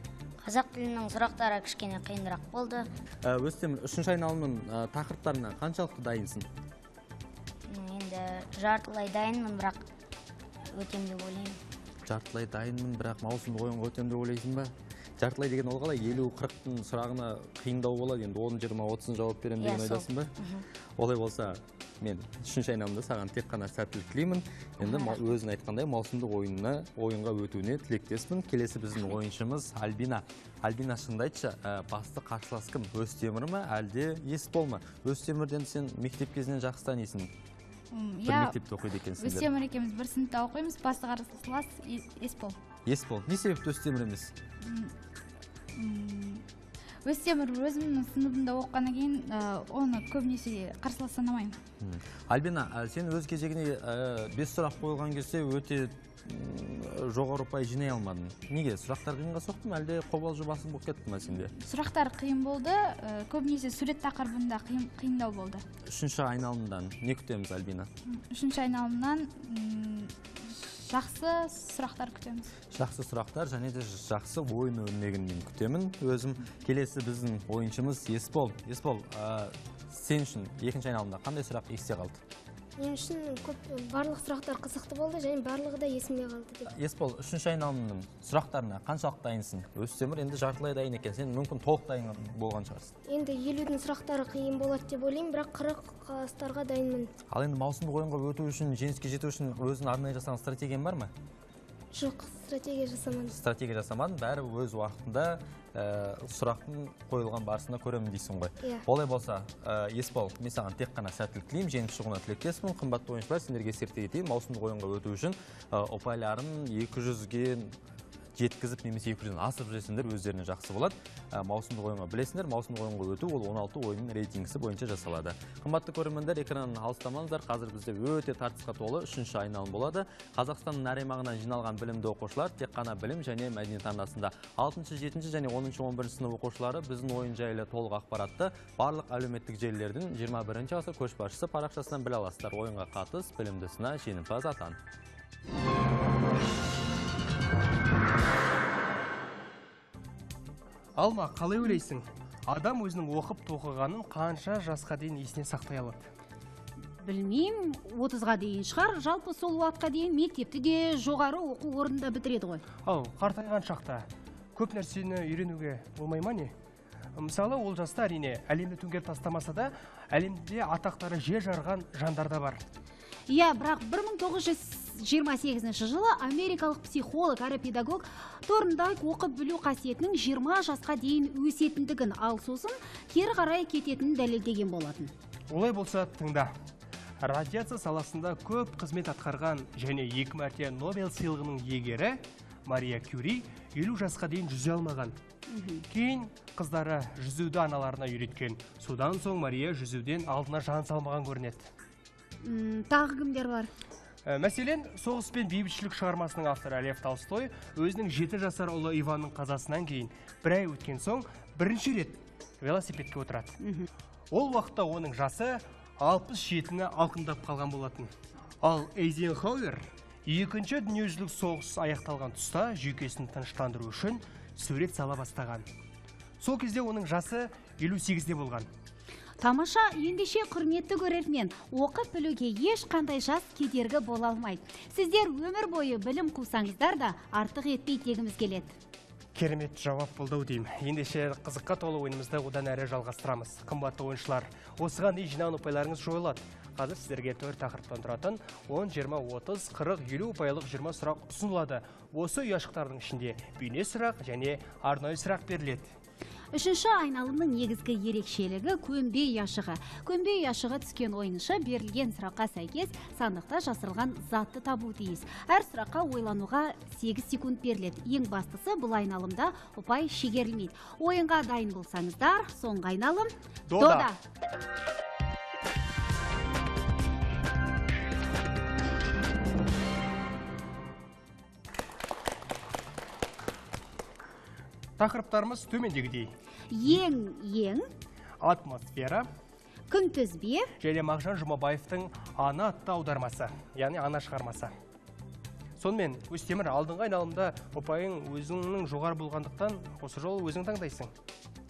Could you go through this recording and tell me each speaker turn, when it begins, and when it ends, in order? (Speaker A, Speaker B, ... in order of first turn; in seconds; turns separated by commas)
Speaker A: 0.4-2.9, Speaker B: 3.2-6.5, Speaker A: 7.7-9.8, Speaker A: 10.7-11.6, Speaker B: 12.1-20.3, Speaker A: 19.6-20.6, Speaker B: 21.0-37.3, Speaker A: 24.8-25.3, Speaker C: 37.9-38.6, Speaker B: 38.2-39.5, Speaker C: 39.2-42.6, Speaker B: 42.9-44.3, Speaker C: 44.6-44.9, Speaker C: 45.7-46.4, Speaker C: 47.0-51.5, Speaker B: 51.8-61.5, Speaker C: 61.6-65.6, Speaker B: 65.9-67.9, Speaker C: 68.1-72.5, Speaker B: 72.7-82.2, Speaker D: 82.8-86.7, Speaker B: 86.7-92.9, Speaker D: 93.1-97.1, Speaker B: 97.3-101.1, Speaker D: 101.9-103.3, Speaker B: 103.3-117.7, Speaker B: 118.3-144.8, Speaker E: 151.0-156.1, Speaker F: 157.0-162.6, Speaker E: 162.8-166.5, Speaker E: 167.2-172.6, Speaker F: 173.3-185.1, Speaker E: 185.5-186.5, Speaker E: 187.2-195.2, Speaker F: 195.5-195.8, Speaker E: 195.9-201.7, Speaker F: 202.4-203.7, Speaker E: 204.2-213.6, Speaker F: 213.6-213.9, Speaker E: 214.3-225.7, Speaker E: 226.4-228.7, Speaker F: 229.4-238.8, Speaker E: 239.3-255.9, Speaker F: 256.5-274.2, Speaker E: 273.7-274.1, Speaker E: 285.0-286.3, Speaker F: 286.7-287.9, Speaker E: 288.4-289.3, Speaker F: 289.9-290.7, Speaker E: 290.8-294.7, Speaker E: 295.8-301.1